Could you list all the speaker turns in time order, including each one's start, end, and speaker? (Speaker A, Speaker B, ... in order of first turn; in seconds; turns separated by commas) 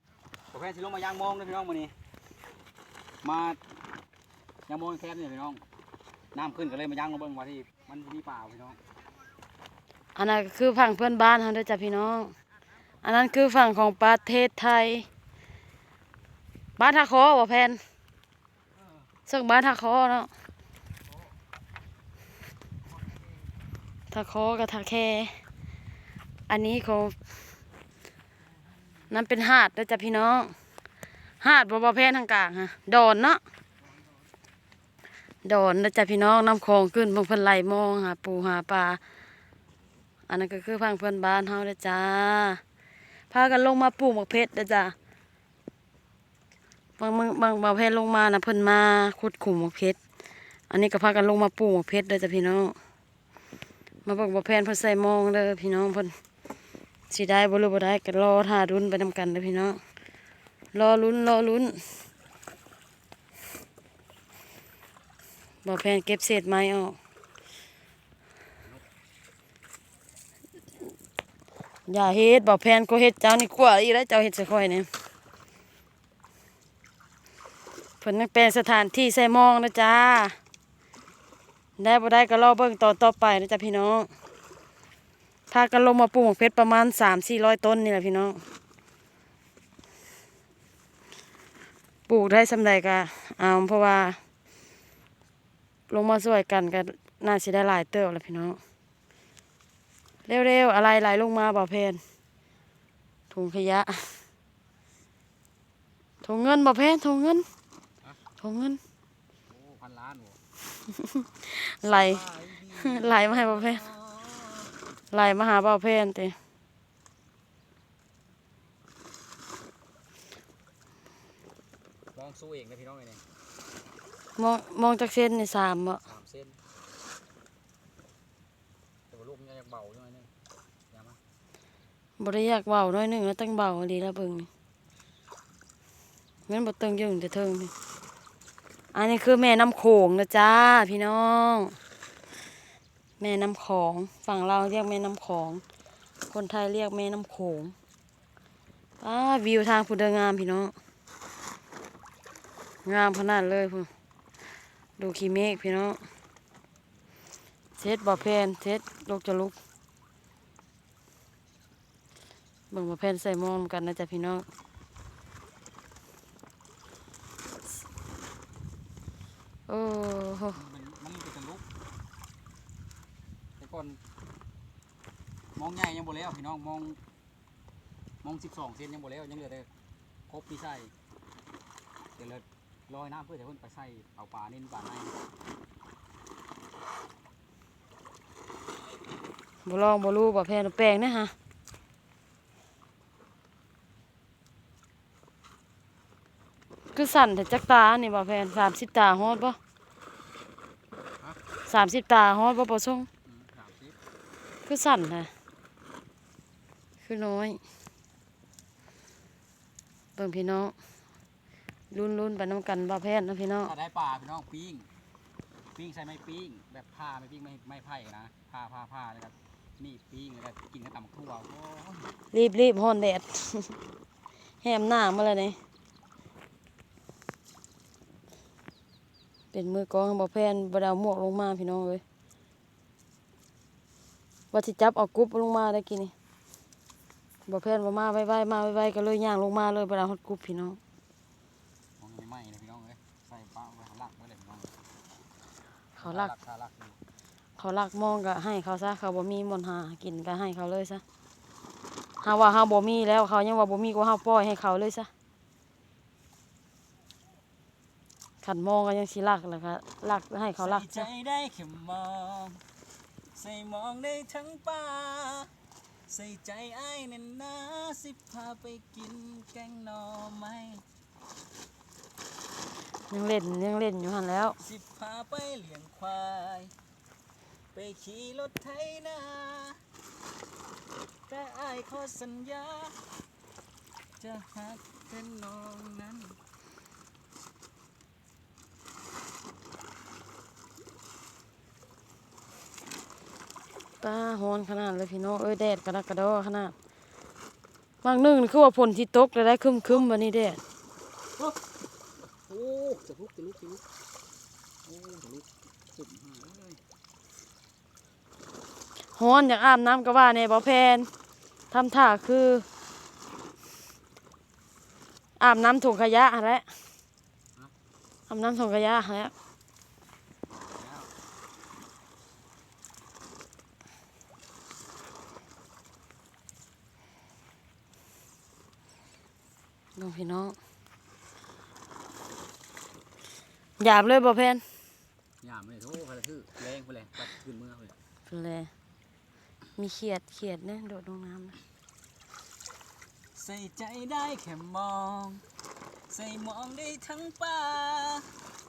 Speaker A: 0.5-1.9, Speaker A: 3.2-3.6, Speaker A: 4.7-5.6, Speaker A: 6.3-8.8, Speaker B: 10.2-12.3, Speaker B: 13.0-15.1, Speaker B: 16.8-17.8, Speaker B: 19.3-20.3, Speaker B: 24.1-25.4, Speaker B: 26.5-27.1, Speaker B: 29.1-30.5, Speaker B: 31.4-33.4, Speaker B: 35.4-39.0, Speaker B: 40.3-42.6, Speaker B: 43.3-44.9, Speaker B: 47.0-50.0, Speaker B: 50.7-52.7, Speaker B: 54.0-56.1, Speaker B: 57.1-59.8, Speaker B: 60.7-61.9, Speaker B: 65.6-67.0, Speaker B: 71.9-74.9, Speaker B: 78.0-80.4, Speaker B: 81.8-84.1, Speaker B: 85.5-88.4, Speaker B: 92.1-94.2, Speaker B: 95.9-98.6, Speaker B: 100.2-102.0, Speaker B: 103.3-104.2, Speaker B: 106.2-107.5, Speaker B: 108.4-108.8, Speaker A: 109.5-110.4, Speaker B: 110.9-112.2, Speaker A: 111.8-114.7, Speaker B: 112.7-113.8, Speaker B: 115.1-116.3, Speaker A: 122.1-123.2, Speaker B: 124.4-126.0, Speaker A: 126.0-126.6, Speaker A: 129.1-130.3, Speaker A: 130.9-131.2, Speaker B: 132.2-134.5, Speaker B: 136.5-137.7, Speaker B: 138.9-141.8, Speaker B: 143.2-145.6, Speaker B: 146.3-147.7, Speaker B: 149.0-150.7, Speaker B: 152.8-153.9, Speaker B: 155.0-156.0, Speaker B: 157.8-159.5, Speaker B: 162.7-164.4, Speaker B: 169.7-170.6, Speaker A: 170.5-171.6, Speaker A: 173.6-174.0, Speaker A: 175.6-177.0, Speaker A: 178.2-179.7, Speaker A: 180.3-180.9, Speaker A: 182.2-185.1, Speaker B: 189.6-191.3, Speaker B: 196.9-199.6, Speaker B: 201.7-203.1, Speaker A: 203.2-204.0, Speaker B: 204.7-205.3, Speaker B: 207.0-207.6, Speaker B: 210.2-210.7, Speaker B: 211.9-213.7, Speaker A: 213.6-214.9, Speaker A: 215.7-222.1, Speaker B: 222.3-223.8, Speaker B: 224.6-225.6, Speaker B: 229.5-232.0, Speaker B: 234.5-236.1, Speaker B: 237.4-240.8, Speaker A: 242.0-244.8, Speaker A: 246.0-247.0, Speaker B: 246.0-246.3, Speaker B: 247.6-251.0, Speaker B: 252.2-255.1, Speaker B: 258.4-261.1, Speaker A: 260.6-262.6, Speaker A: 263.3-265.5, Speaker A: 266.1-270.8, Speaker B: 273.1-274.6, Speaker A: 274.6-276.7, Speaker A: 277.7-279.8, Speaker A: 281.3-283.0, Speaker A: 284.2-286.4, Speaker B: 294.0-296.7, Speaker B: 298.0-300.6, Speaker A: 302.4-303.8, Speaker A: 304.8-306.8, Speaker B: 309.1-311.1, Speaker B: 311.7-312.6, Speaker B: 315.4-316.7, Speaker B: 318.3-319.3, Speaker A: 320.5-321.1, Speaker B: 329.9-330.6, Speaker B: 333.8-334.6, Speaker A: 335.4-337.9, Speaker B: 338.3-338.7, Speaker B: 339.8-341.6, Speaker A: 343.3-345.4, Speaker A: 346.1-348.3